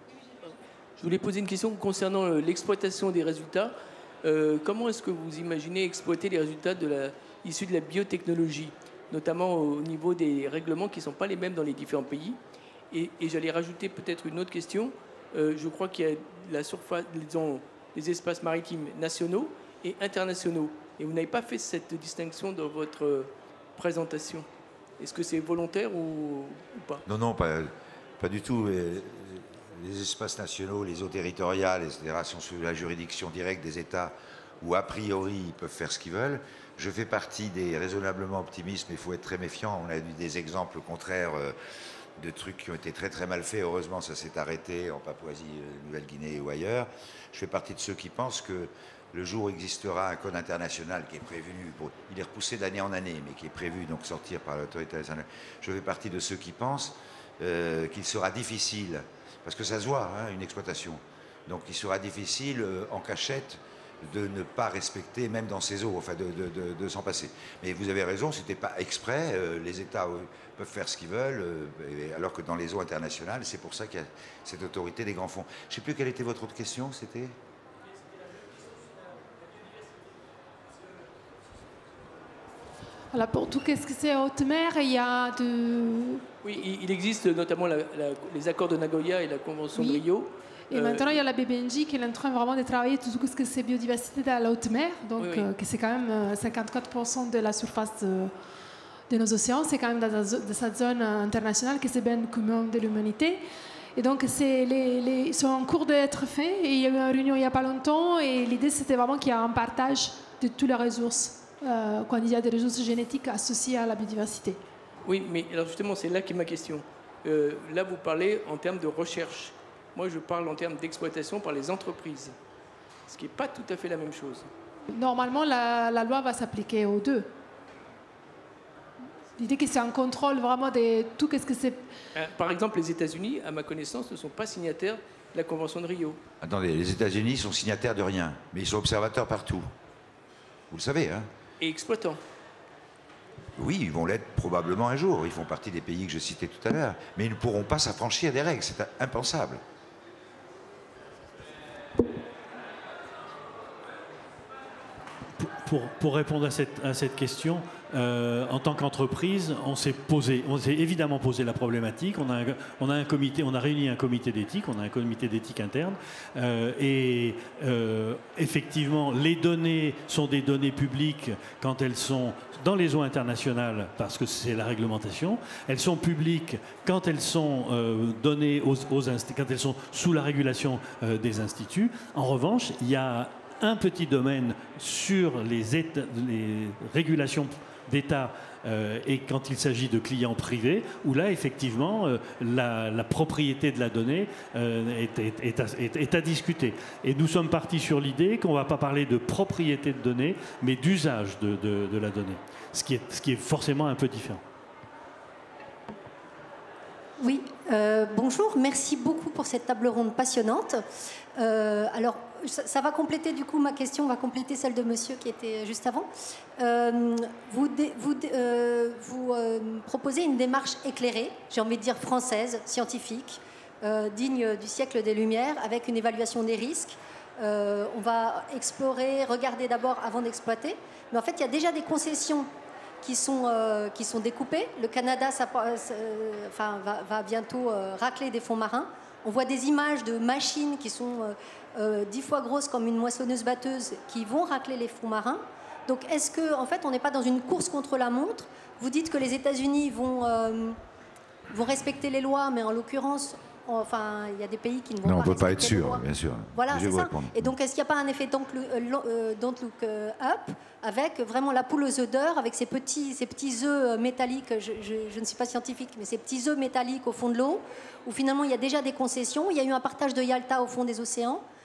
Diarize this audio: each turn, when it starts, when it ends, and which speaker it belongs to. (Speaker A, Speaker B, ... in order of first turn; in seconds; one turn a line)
Speaker A: 1.0-12.4
Speaker A: 12.9-24.5
Speaker A: 25.0-27.0
Speaker B: 27.1-41.5
Speaker B: 42.2-77.4
Speaker C: 83.1-86.2
Speaker A: 86.4-91.2
Speaker C: 89.8-90.0
Speaker C: 90.7-98.3
Speaker A: 95.2-95.5
Speaker C: 99.1-103.4
Speaker C: 104.0-114.6
Speaker A: 115.0-122.3
Speaker A: 123.1-124.5
Speaker C: 124.9-127.3
Speaker C: 129.4-131.9
Speaker A: 132.1-136.2
Speaker B: 136.4-139.7
Speaker B: 140.7-141.3
Speaker A: 141.6-142.2
Speaker B: 143.6-149.6
Speaker D: 155.4-204.4
Speaker E: 207.2-210.8
Speaker E: 211.4-232.5
Speaker E: 233.0-250.8
Speaker E: 251.5-271.4
Speaker B: 255.0-257.5